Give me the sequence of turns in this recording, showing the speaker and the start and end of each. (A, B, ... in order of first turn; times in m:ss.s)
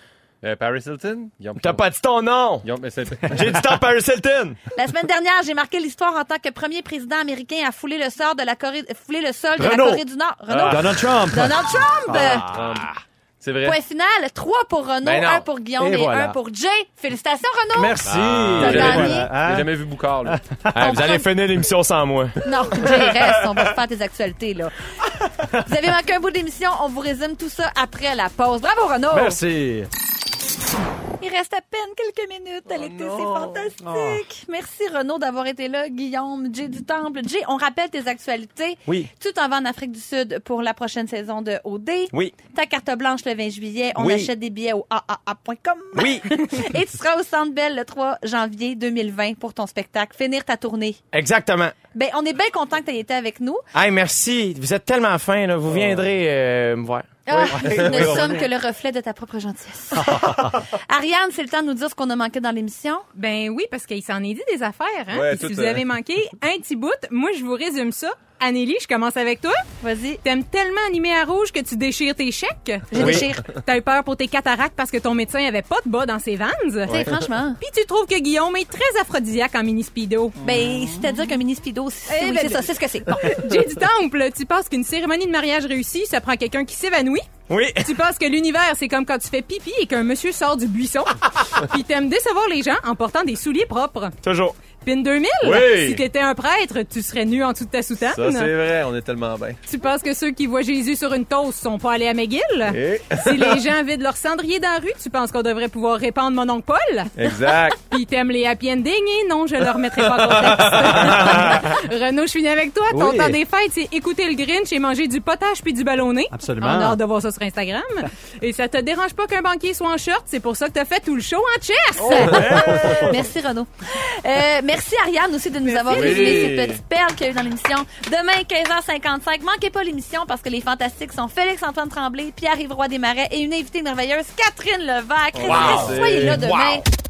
0:00.4-0:01.8 A
0:01.6-0:02.7 B
0:02.6-0:03.7 A
0:03.3-0:04.6 B
0:04.8-0:12.5 C
0:09.6-0:10.0 D
0:10.6-0:12.4 D
0:12.3-0:12.9 B
0:12.5-0:13.8 A
0:13.6-0:18.0 C
0:15.0-0:15.5 B
0:15.8-0:16.4 D
0:17.7-0:21.0 D
0:18.1-0:18.9 B
0:18.6-0:19.3 C
0:18.6-0:20.4 A
0:20.7-0:23.6 B
0:20.8-0:21.3 C
0:22.4-0:24.7 C
0:25.6-0:29.4 C
0:29.1-0:29.9 D
0:31.2-0:51.0 C
0:32.7-0:33.7 A
0:33.8-0:34.2 D
0:44.0-0:44.3 B
0:46.0-0:46.3 B
0:51.1-0:51.8 B
0:51.9-0:53.6 C
0:53.7-0:57.1 B
0:55.7-0:56.2 A
0:57.3-1:03.1 C
0:57.3-0:58.5 D
0:57.5-0:58.4 A
1:00.0-1:00.6 D
1:03.1-1:09.6 E
1:05.1-1:05.9 A
1:09.8-1:10.2 C
1:10.2-1:17.0 E
1:12.9-1:13.5 C
1:13.0-1:13.3 B
1:16.9-1:17.6 C
1:16.9-1:17.2 A
1:17.6-1:20.4 E
1:20.4-1:23.3 C
1:22.1-1:27.2 E
1:27.5-1:28.0 B
1:27.8-1:34.2 E
1:34.2-1:34.6 B
1:34.7-1:38.5 E
1:35.4-1:36.0 A
1:38.0-1:39.6 A
1:39.7-1:47.1 E
1:42.7-1:43.6 A
1:47.2-1:47.8 A
1:47.9-2:02.9 E
1:52.9-1:53.4 D
1:56.3-1:57.0 D
2:02.1-2:16.8 C
2:02.2-2:03.0 B
2:02.2-2:03.1 A
2:05.6-2:06.5 E
2:05.9-2:06.8 A
2:15.3-2:16.5 A
2:15.4-2:16.8 B